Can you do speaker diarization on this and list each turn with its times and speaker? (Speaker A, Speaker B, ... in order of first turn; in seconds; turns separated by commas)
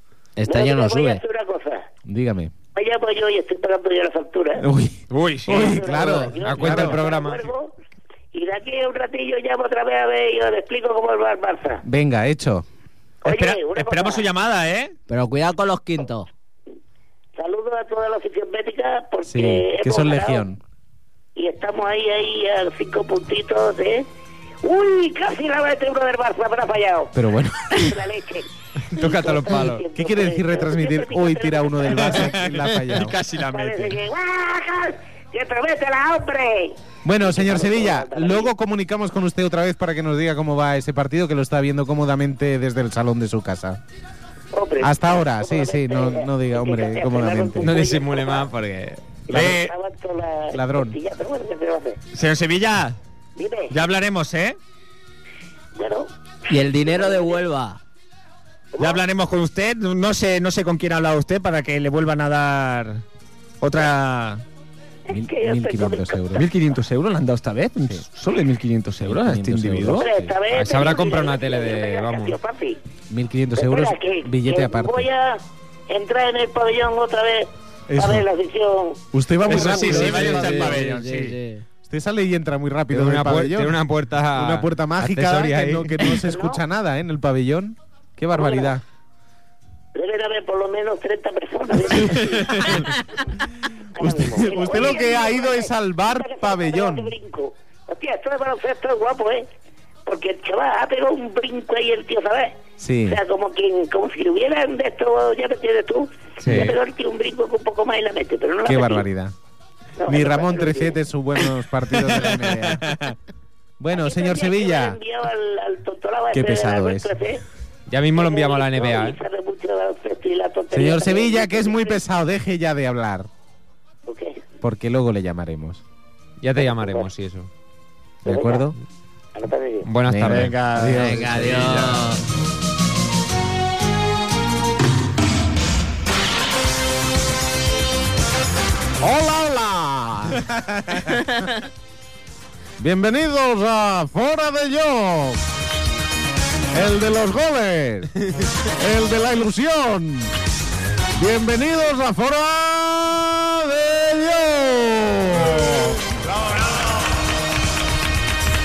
Speaker A: 0.4-1.2, Speaker B: 0.4-1.9, Speaker C: 2.1-2.5, Speaker B: 2.7-4.7, Speaker C: 4.6-7.0, Speaker D: 5.1-5.8, Speaker B: 5.5-7.7, Speaker E: 6.4-7.5, Speaker B: 8.3-11.8, Speaker C: 11.8-12.6, Speaker B: 13.2-14.3, Speaker D: 13.2-14.9, Speaker A: 15.1-16.3, Speaker B: 17.3-20.4, Speaker C: 19.2-20.6, Speaker B: 21.3-24.1, Speaker B: 24.6-27.1, Speaker C: 27.1-28.0, Speaker B: 27.7-32.4, Speaker E: 28.9-29.8, Speaker C: 29.9-33.2, Speaker D: 32.1-34.0, Speaker B: 33.4-38.5, Speaker C: 37.0-43.8, Speaker B: 44.5-48.5, Speaker C: 44.8-47.8, Speaker E: 47.6-49.0, Speaker B: 49.3-52.0, Speaker D: 49.3-49.7, Speaker C: 50.5-51.0, Speaker D: 52.1-53.0, Speaker B: 53.4-53.7, Speaker D: 53.7-54.6, Speaker B: 55.7-57.4, Speaker A: 56.5-57.8, Speaker B: 58.7-59.0, Speaker D: 58.8-63.0, Speaker D: 63.6-64.4, Speaker B: 65.1-66.2, Speaker C: 65.1-66.5, Speaker D: 66.3-70.1, Speaker C: 69.0-70.4, Speaker B: 70.0-72.8, Speaker E: 70.5-72.4, Speaker C: 73.1-75.1, Speaker B: 73.5-79.0, Speaker C: 77.9-78.2, Speaker C: 79.1-80.8, Speaker D: 79.4-81.3, Speaker A: 79.7-81.6, Speaker C: 81.8-83.8, Speaker E: 82.9-86.2, Speaker C: 84.3-88.8, Speaker B: 86.2-86.6, Speaker B: 88.3-88.7, Speaker B: 89.9-92.9, Speaker C: 91.9-92.9, Speaker B: 94.0-99.5, Speaker C: 94.0-97.1, Speaker B: 100.0-109.0, Speaker C: 102.8-103.2, Speaker E: 106.4-106.7, Speaker C: 106.4-106.8, Speaker C: 108.6-109.3, Speaker B: 110.0-111.0, Speaker C: 110.1-113.0, Speaker D: 112.1-113.1, Speaker C: 113.8-115.0, Speaker B: 113.9-117.4, Speaker C: 116.3-117.1, Speaker E: 117.9-119.2, Speaker B: 118.1-122.0, Speaker C: 120.7-123.3, Speaker B: 124.0-124.4, Speaker C: 124.6-125.8, Speaker E: 126.4-127.5, Speaker B: 126.6-127.1, Speaker B: 128.2-128.7, Speaker C: 128.2-128.7, Speaker B: 129.3-129.9, Speaker E: 129.8-130.6, Speaker C: 130.0-131.8, Speaker D: 130.2-132.0, Speaker A: 130.9-132.2, Speaker C: 139.0-141.4, Speaker C: 142.8-145.4, Speaker C: 146.7-150.3, Speaker C: 151.1-156.0